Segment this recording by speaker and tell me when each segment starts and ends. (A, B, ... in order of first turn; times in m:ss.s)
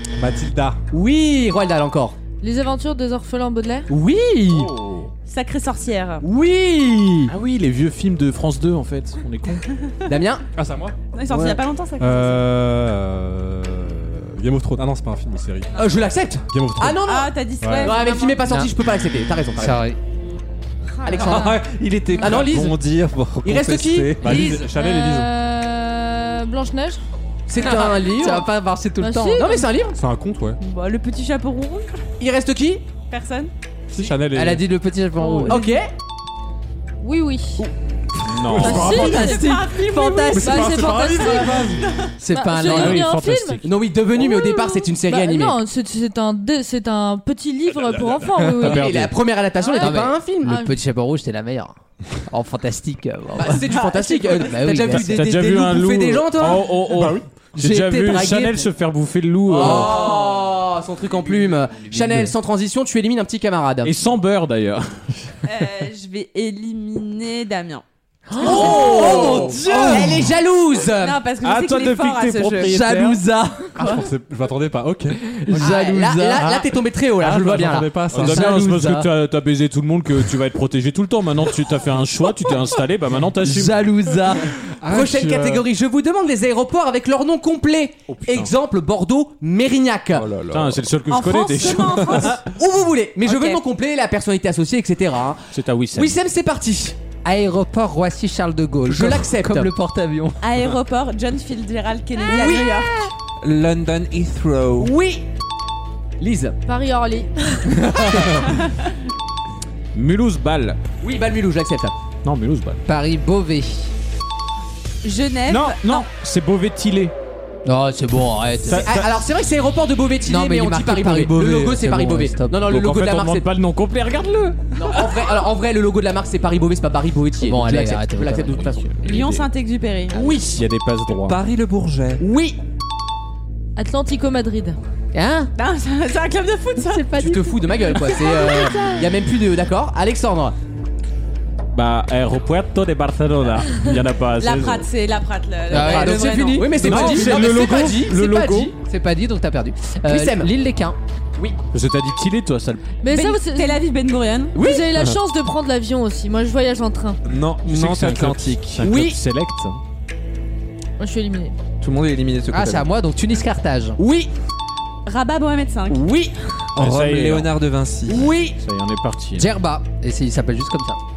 0:00.2-0:00.8 A
0:00.9-0:02.2 B
0:02.4-0:03.9 C
0:03.9-0:04.7 B
0:04.5-0:05.1 D
0:05.3-0:06.2 E
0:06.2-0:07.3 B
0:07.3-0:09.6 D
0:10.1-0:10.4 B
0:10.6-0:11.0 A
0:11.1-0:12.5 E
0:11.3-0:11.6 B
0:12.0-0:17.0 A
0:15.8-0:19.8 B
0:17.1-0:18.3 E
0:17.6-0:18.0 A
0:18.4-0:18.7 F
0:19.6-0:20.0 F
0:21.0-0:21.5 C
0:21.0-0:21.6 B
0:21.2-0:24.4 G
0:22.2-0:22.8 B
0:23.4-0:24.6 B
0:24.2-0:25.3 A
0:24.5-0:27.0 C
0:27.5-0:28.5 B
0:27.6-0:29.5 F
0:29.0-0:29.7 C
0:29.4-0:30.0 B
0:30.0-0:30.6 A
0:30.6-0:32.0 E
0:32.2-0:32.8 B
0:33.1-0:33.5 E
0:33.9-0:34.6 A
0:34.3-0:35.6 F
0:35.2-0:35.5 C
0:35.5-0:35.9 B
0:37.0-0:37.7 C
0:38.3-0:39.0 D
0:38.5-0:39.3 A
0:38.5-0:39.6 C
0:38.9-0:40.4 F
0:39.1-0:42.1 E
0:40.3-0:49.0 C
0:40.4-0:41.8 A
0:42.2-0:43.1 F
0:42.7-0:43.7 D
0:43.6-0:45.6 B
0:47.9-0:48.4 A
0:48.5-0:49.1 D
0:48.6-0:50.6 B
0:49.6-0:50.7 C
0:49.7-0:51.8 F
0:52.3-0:55.2 F
0:53.4-0:56.8 B
0:53.7-0:54.5 E
0:54.9-1:00.0 D
0:56.9-0:57.3 A
0:57.6-0:58.7 B
0:59.5-1:03.9 B
1:00.0-1:00.3 E
1:03.8-1:05.3 D
1:05.4-1:07.8 E
1:08.3-1:10.2 F
1:08.4-1:11.2 B
1:08.5-1:09.5 E
1:09.3-1:10.1 A
1:10.9-1:12.8 E
1:11.4-1:13.2 D
1:12.6-1:13.9 F
1:13.8-1:15.7 A
1:15.2-1:16.6 F
1:15.6-1:18.0 B
1:17.2-1:18.5 A
1:18.1-1:23.9 D
1:18.2-1:19.1 F
1:23.4-1:24.5 F
1:24.8-1:25.6 A
1:24.9-1:30.3 B
1:28.1-1:28.5 D
1:30.1-1:30.9 G
1:30.5-1:32.4 D
1:31.1-1:32.5 E
1:32.2-1:37.0 B
1:33.2-1:33.6 E
1:35.5-1:36.2 D
1:37.2-1:40.4 F
1:38.9-1:39.7 B
1:40.4-1:43.1 E
1:42.3-1:43.1 B
1:43.4-1:44.9 G
1:44.8-1:45.3 B
1:46.2-1:46.6 B
1:46.7-1:48.2 C
1:49.9-1:50.8 D
1:51.0-1:51.9 B
1:52.2-1:52.8 D
1:52.9-1:53.9 F
1:55.0-1:56.1 E
1:55.5-1:57.1 D
1:57.6-1:59.0 F
1:58.6-1:59.1 D
1:58.8-2:03.5 B
2:00.2-2:02.6 F
2:02.7-2:04.6 D
2:04.8-2:09.0 B
2:07.4-2:08.8 F
2:09.0-2:09.4 D
2:09.0-2:10.4 E
2:10.1-2:10.6 B
2:10.5-2:11.4 D
2:11.2-2:12.2 G
2:12.2-2:12.6 B
2:13.8-2:14.8 C
2:15.1-2:15.5 F
2:15.6-2:17.2 E
2:16.8-2:19.1 F
2:17.1-2:20.6 B
2:17.9-2:18.9 E
2:21.7-2:24.9 D
2:24.4-2:26.8 E
2:25.7-2:27.6 F
2:25.7-2:28.8 B
2:26.8-2:28.7 D
2:28.8-2:31.0 F
2:30.0-2:30.5 B
2:31.7-2:32.8 D
2:33.0-2:33.8 C
2:33.1-2:34.5 E
2:34.6-2:34.9 B
2:34.6-2:37.2 C
2:37.3-2:38.9 G
2:37.6-2:39.8 D
2:38.8-2:39.2 B
2:41.0-2:41.6 C
2:41.8-2:42.9 G
2:42.5-2:44.0 F
2:44.0-2:44.3 B
2:45.1-2:46.0 E
2:45.9-2:46.4 B
2:46.8-2:48.3 G
2:46.8-2:47.5 D
2:48.1-2:48.6 B
2:48.6-2:49.5 D
2:49.4-2:51.0 F